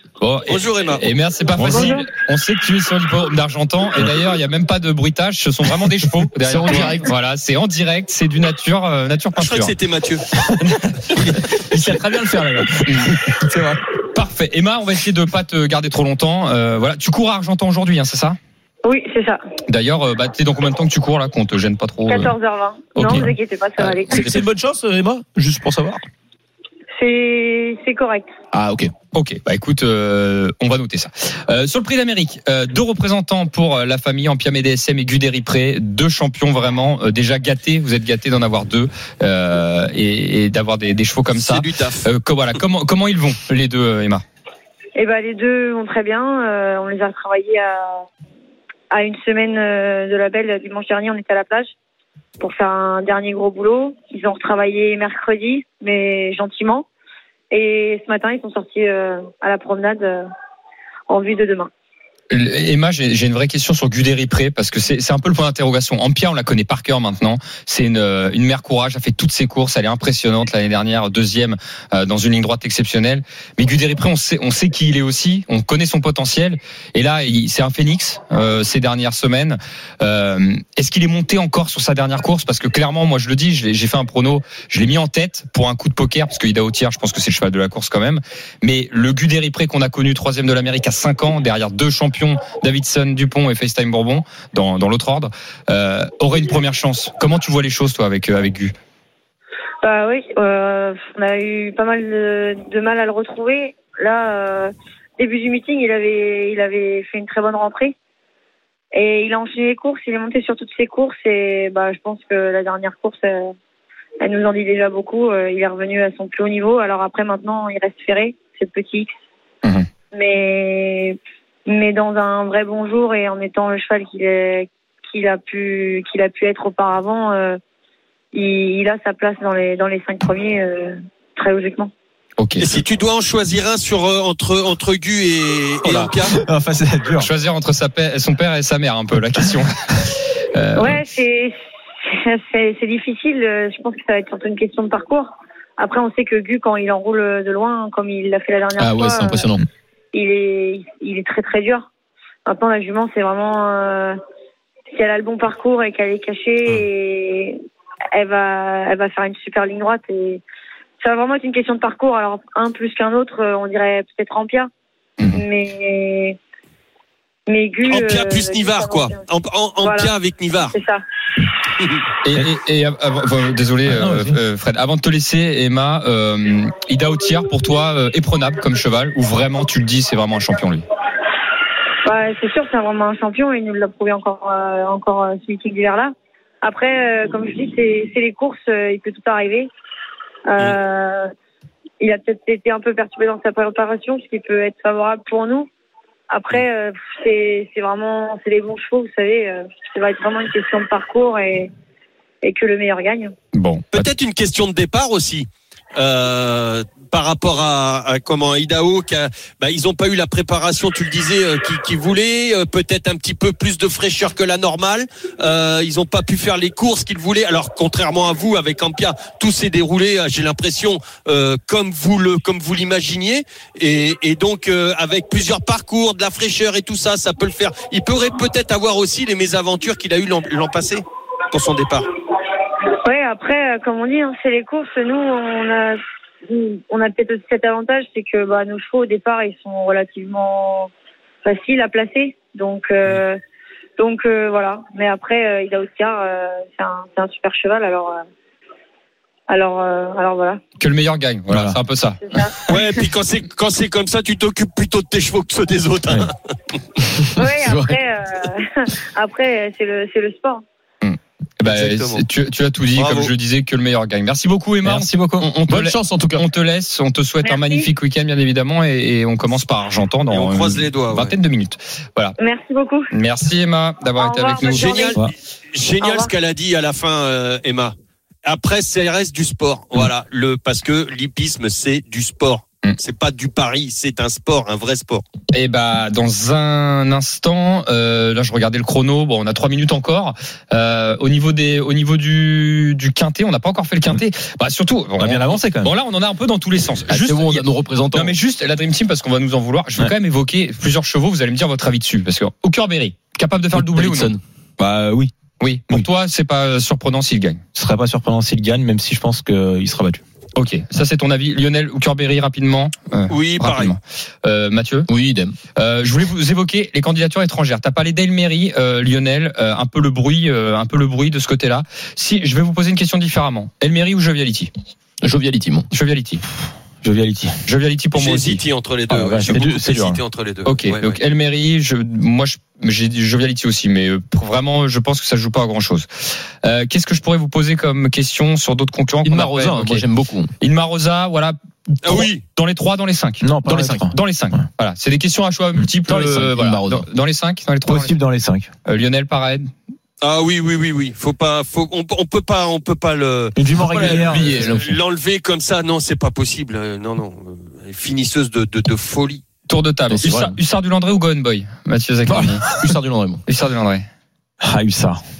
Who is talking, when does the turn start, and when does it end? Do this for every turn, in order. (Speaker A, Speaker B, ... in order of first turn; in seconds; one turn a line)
Speaker A: 0.2-9.7
Speaker B: 0.5-1.1
Speaker C: 1.5-1.9
Speaker D: 1.6-2.1
Speaker E: 6.4-7.1
Speaker B: 9.4-10.2
Speaker A: 11.1-11.9
Speaker C: 11.3-13.8
Speaker A: 12.8-13.2
Speaker A: 14.1-18.4
Speaker D: 18.8-19.4
Speaker A: 19.7-22.3
Speaker D: 22.1-24.2
Speaker A: 22.9-24.4
Speaker E: 24.1-26.0
Speaker D: 27.0-28.3
Speaker E: 28.5-28.9
Speaker A: 29.1-44.2
Speaker B: 41.3-42.1
Speaker D: 45.0-48.0
Speaker D: 48.9-51.7
Speaker D: 52.4-56.9
Speaker D: 57.5-60.3
Speaker D: 61.1-61.7
Speaker A: 62.3-98.7
Speaker D: 99.8-107.9
Speaker D: 108.9-113.5
Speaker D: 114.2-119.1
Speaker D: 120.1-127.6
Speaker D: 128.3-131.9
Speaker A: 132.4-132.8
Speaker B: 132.6-136.3
Speaker C: 136.3-137.3
Speaker A: 137.2-139.9
Speaker A: 140.5-141.0
Speaker D: 140.8-141.6
Speaker D: 142.1-149.5
Speaker E: 148.8-149.6
Speaker D: 150.1-151.9
Speaker D: 152.4-154.2
Speaker D: 154.9-157.6
Speaker D: 158.1-160.4
Speaker D: 161.0-164.7
Speaker D: 165.3-166.4
Speaker D: 167.5-169.2
Speaker B: 167.8-170.8
Speaker D: 169.8-170.1
Speaker D: 170.7-171.0
Speaker B: 171.8-172.0
Speaker A: 172.2-180.8
Speaker C: 173.8-174.4
Speaker D: 182.0-189.7
Speaker D: 190.5-191.3
Speaker D: 192.0-195.7
Speaker D: 196.3-201.7
Speaker D: 202.4-203.3
Speaker A: 203.5-204.1
Speaker B: 203.9-232.1
Speaker D: 233.0-240.9
Speaker D: 241.4-243.4
Speaker D: 244.0-248.2
Speaker D: 249.5-250.6
Speaker A: 250.8-252.2
Speaker C: 251.5-251.8
Speaker D: 252.2-252.6
Speaker B: 252.7-256.4
Speaker D: 257.4-260.6
Speaker E: 257.6-257.9
Speaker A: 261.0-272.4
Speaker B: 261.6-262.2
Speaker B: 262.9-263.3
Speaker C: 264.8-265.5
Speaker E: 265.7-266.4
Speaker D: 267.4-267.9
Speaker B: 270.3-271.3
Speaker D: 272.4-273.1
Speaker A: 273.1-274.9
Speaker D: 274.2-275.2
Speaker B: 274.6-285.2
Speaker D: 276.0-276.3
Speaker A: 285.5-304.3
Speaker C: 295.1-295.9
Speaker E: 297.1-298.4
Speaker E: 303.7-304.4
Speaker C: 304.8-305.3
Speaker A: 305.6-307.6
Speaker C: 307.7-310.2
Speaker A: 310.5-315.1
Speaker B: 313.3-313.9
Speaker E: 315.1-315.5
Speaker A: 315.8-324.7
Speaker E: 325.2-325.9
Speaker A: 325.9-326.4
Speaker C: 327.0-327.6
Speaker A: 327.6-328.6
Speaker B: 328.1-331.2
Speaker C: 329.1-330.2
Speaker A: 330.6-336.1
Speaker A: 336.6-340.0
Speaker E: 339.2-340.5
Speaker A: 340.6-343.4
Speaker B: 342.0-342.4
Speaker C: 343.4-344.1
Speaker E: 343.7-344.1
Speaker A: 344.1-348.1
Speaker E: 346.1-347.0
Speaker C: 347.9-348.7
Speaker A: 348.8-349.7
Speaker B: 350.2-359.4
Speaker C: 353.6-354.6
Speaker E: 353.9-355.0
Speaker A: 359.7-362.6
Speaker E: 360.1-360.6
Speaker C: 362.3-362.8
Speaker E: 362.8-363.4
Speaker A: 363.5-364.1
Speaker C: 364.6-365.2